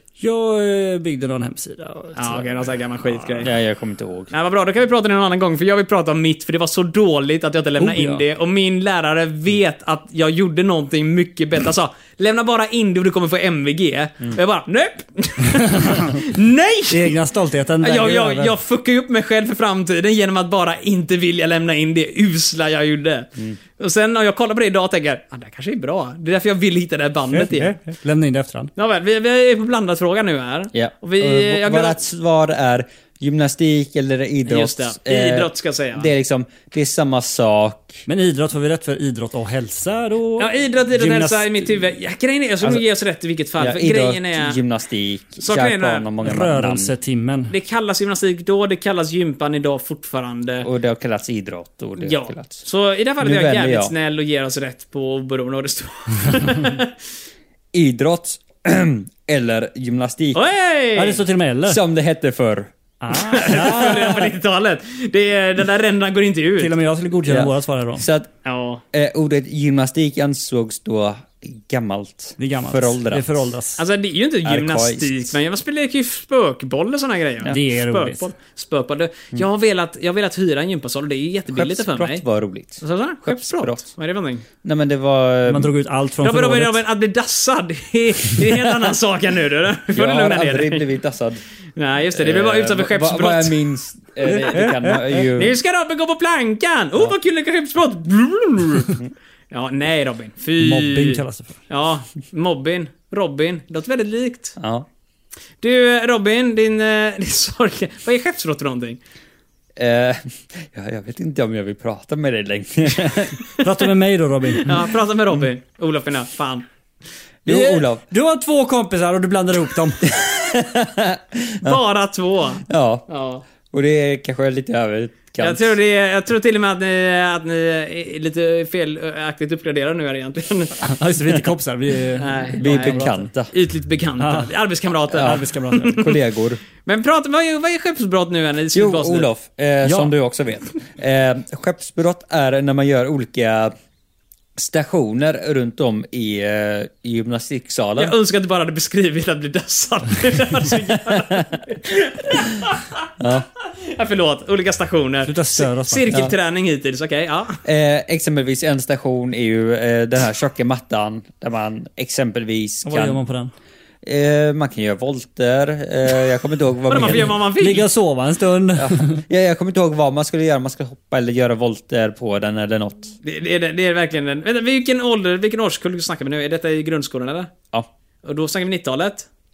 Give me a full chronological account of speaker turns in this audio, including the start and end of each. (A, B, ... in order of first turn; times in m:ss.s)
0:00.2-0:03.5 A
0:02.2-0:03.5 B
0:03.4-0:04.3 C
0:04.3-0:17.2 B
0:07.8-0:08.2 A
0:15.5-0:16.2 A
0:16.9-0:18.5 A
0:17.8-0:27.7 B
0:27.3-0:28.7 A
0:28.8-0:32.0 B
0:30.7-0:38.0 C
0:34.5-0:36.1 B
0:38.1-0:41.8 A
0:40.4-0:44.6 B
0:43.6-0:46.9 C
0:45.4-0:46.1 B
0:46.2-0:47.5 A
0:47.5-0:50.7 B
0:50.6-0:52.6 C
0:52.0-0:56.9 B
0:53.2-0:53.9 C
0:56.3-0:56.6 A
0:57.7-1:00.4 C
1:00.3-1:01.2 B
1:01.0-1:01.8 A
1:01.7-1:02.7 C
1:03.0-1:04.3 A
1:03.2-1:06.7 B
1:06.6-1:08.1 A
1:07.3-1:08.3 C
1:08.4-1:08.8 B
1:08.9-1:13.3 C
1:12.4-1:13.8 A
1:13.8-1:22.2 B
1:14.4-1:15.3 C
1:17.5-1:18.3 A
1:21.5-1:23.9 C
1:22.8-1:24.4 B
1:24.6-1:25.7 C
1:25.5-1:26.8 A
1:26.2-1:30.8 B
1:29.9-1:31.4 C
1:31.8-1:33.6 B
1:32.1-1:35.6 C
1:34.2-1:34.6 B
1:34.5-1:35.3 A
1:35.3-1:39.0 B
1:39.5-1:44.6 B
1:40.6-1:41.6 A
1:44.6-1:44.9 C
1:45.6-1:49.0 B
1:49.8-1:53.4 C
1:53.6-1:54.8 A
1:54.5-1:56.7 B
1:57.4-1:58.0 C
1:57.5-2:00.2 A
2:00.1-2:01.8 C
2:01.6-2:03.4 B
2:02.7-2:03.1 C
2:03.6-2:05.8 C
2:05.4-2:10.8 B
2:10.8-2:13.2 A
2:12.2-2:16.2 B
2:12.6-2:13.5 C
2:14.2-2:14.5 A
2:15.1-2:16.6 C
2:15.1-2:16.0 A
2:16.8-2:19.3 B
2:18.7-2:23.7 C
2:19.8-2:20.1 A
2:24.6-2:28.2 C
2:28.0-2:33.0 B
2:33.2-2:33.5 C
2:33.6-2:37.6 B
2:35.2-2:36.1 A
2:37.6-2:43.2 C
2:42.9-2:43.5 A
2:44.0-2:47.4 C
2:46.9-2:47.9 B
2:47.1-2:49.2 A
2:48.8-2:53.1 C
2:53.2-2:57.5 B
2:58.2-2:59.3 B